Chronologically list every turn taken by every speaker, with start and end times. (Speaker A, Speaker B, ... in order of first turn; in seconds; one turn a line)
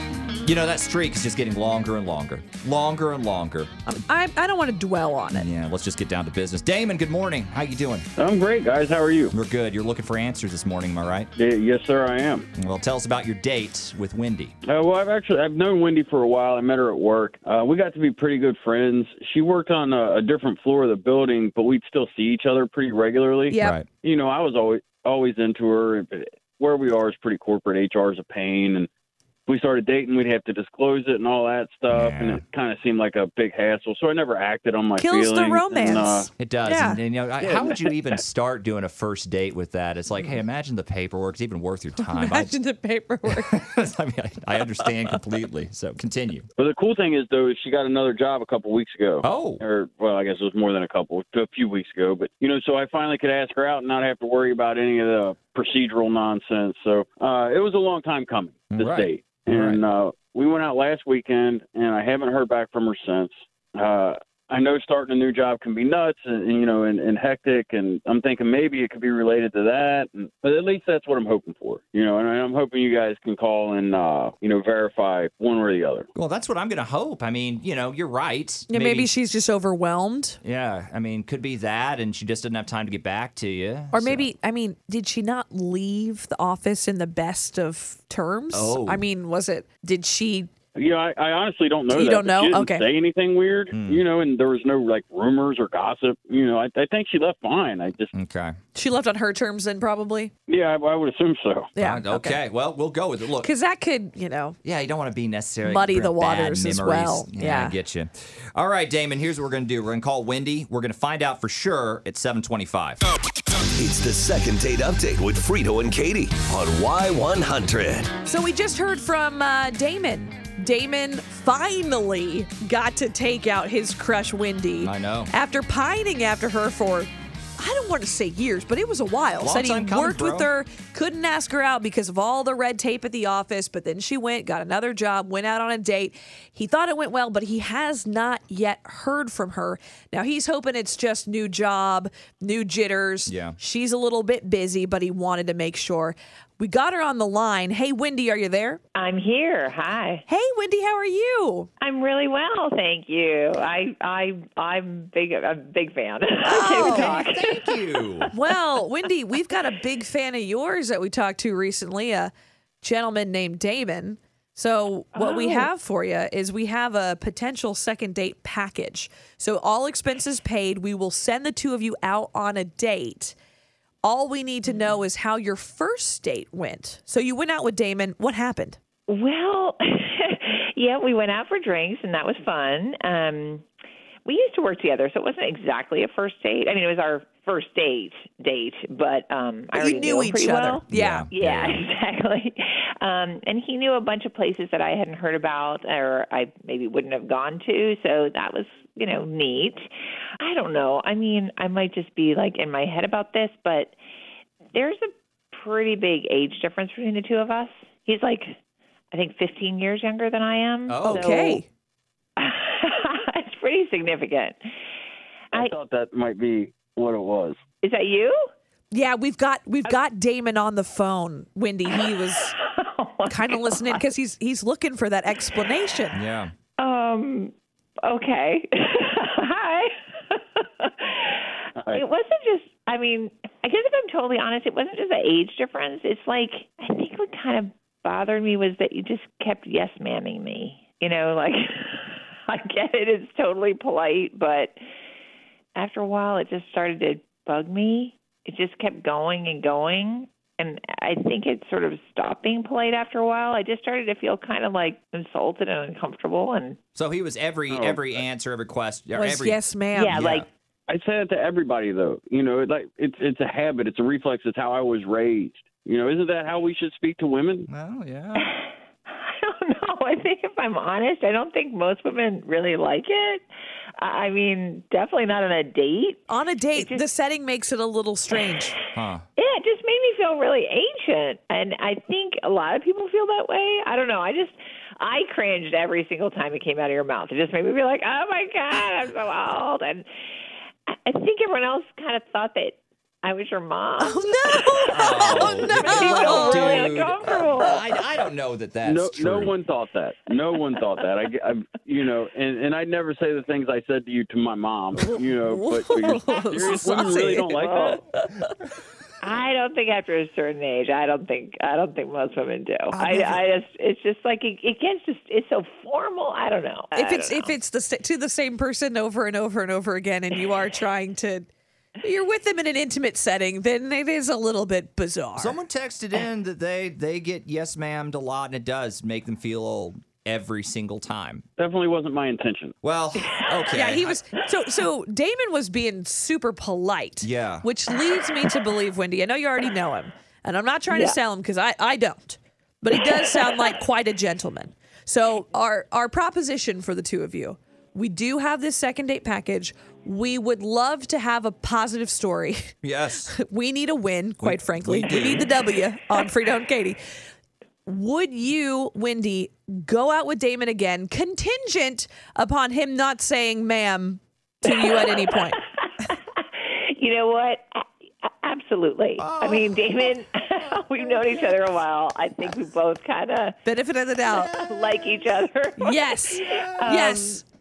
Speaker A: 0.4-3.7
Speaker B: 3.9-5.5
Speaker A: 5.3-8.1
Speaker C: 8.2-9.3
Speaker A: 9.3-11.3
Speaker C: 11.4-12.5
Speaker A: 12.6-14.5
Speaker C: 14.7-28.9
Speaker A: 23.6-23.9
Speaker C: 29.5-36.3
Speaker A: 31.9-32.4
Speaker B: 35.0-37.0
Speaker A: 36.4-42.5
Speaker C: 37.4-37.8
Speaker B: 42.0-43.5
Speaker A: 43.3-46.5
Speaker C: 46.6-76.1
Speaker A: 49.2-49.6
Speaker A: 58.7-59.8
Speaker A: 76.2-79.1
Speaker B: 78.7-80.4
Speaker A: 80.4-84.3
Speaker B: 83.9-90.5
Speaker A: 88.5-89.0
Speaker C: 90.8-98.1
Speaker B: 91.9-92.8
Speaker A: 93.7-94.0
Speaker A: 98.1-98.5
Speaker B: 98.8-100.3
Speaker C: 100.5-101.7
Speaker B: 101.8-102.4
Speaker A: 101.8-103.5
Speaker B: 103.4-104.6
Speaker A: 104.6-113.0
Speaker B: 105.7-107.8
Speaker D: 113.8-118.1
Speaker B: 118.2-148.8
Speaker A: 124.8-125.3
Speaker A: 129.4-130.5
Speaker A: 143.3-143.6
Speaker E: 148.9-150.2
Speaker B: 150.3-151.7
Speaker E: 151.8-158.3
Speaker B: 156.4-157.2
Speaker A: 156.7-158.3
Speaker B: 158.3-173.4
Speaker E: 165.1-165.7
Speaker B: 174.0-178.8
Speaker E: 174.7-174.9
Speaker E: 179.1-183.6
Speaker E: 184.3-199.9
Speaker B: 189.8-191.2
Speaker A: 190.9-191.8
Speaker E: 200.4-203.9
Speaker E: 204.7-208.6
Speaker E: 209.1-211.6
Speaker A: 210.9-211.3
Speaker B: 211.2-211.7
Speaker E: 212.4-214.6
Speaker C: 215.5-217.6
Speaker E: 217.8-218.4
Speaker B: 218.9-222.6
Speaker E: 222.0-224.0
Speaker B: 223.3-226.2
Speaker A: 226.1-226.5
Speaker E: 226.8-227.5
Speaker E: 228.1-244.8
Speaker C: 231.8-232.0
Speaker E: 245.8-256.8
Speaker A: 256.9-259.6
Speaker C: 257.7-258.2
Speaker B: 259.2-260.1
Speaker E: 259.9-260.5
Speaker A: 260.1-260.5
Speaker C: 260.9-267.7
Speaker A: 267.7-268.5
Speaker E: 268.4-273.4
Speaker E: 274.0-277.0
Speaker B: 276.3-278.8
Speaker A: 278.9-279.2
Speaker E: 279.4-290.1
Speaker E: 291.1-298.0
Speaker B: 294.0-296.6
Speaker A: 294.9-299.5
Speaker C: 298.9-308.0
Speaker B: 305.0-307.4
Speaker E: 307.5-308.0
Speaker B: 308.1-308.5
Speaker E: 309.2-317.5
Speaker B: 312.9-313.5
Speaker B: 316.9-321.5
Speaker B: 322.0-325.6
Speaker A: 325.4-331.4
Speaker C: 331.6-332.8
Speaker A: 332.8-334.2
Speaker E: 333.2-333.7
Speaker B: 333.7-357.0
Speaker A: 337.2-337.6
Speaker E: 343.0-343.6
Speaker A: 352.8-353.3
Speaker A: 354.4-355.5
Speaker B: 357.9-365.6
Speaker E: 364.7-365.2
Speaker E: 366.0-373.6
Speaker A: 369.2-370.1
Speaker B: 373.7-374.5
Speaker A: 374.3-375.3
Speaker E: 374.5-377.4
Speaker B: 375.8-376.4
Speaker A: 376.3-377.2
Speaker B: 376.9-377.4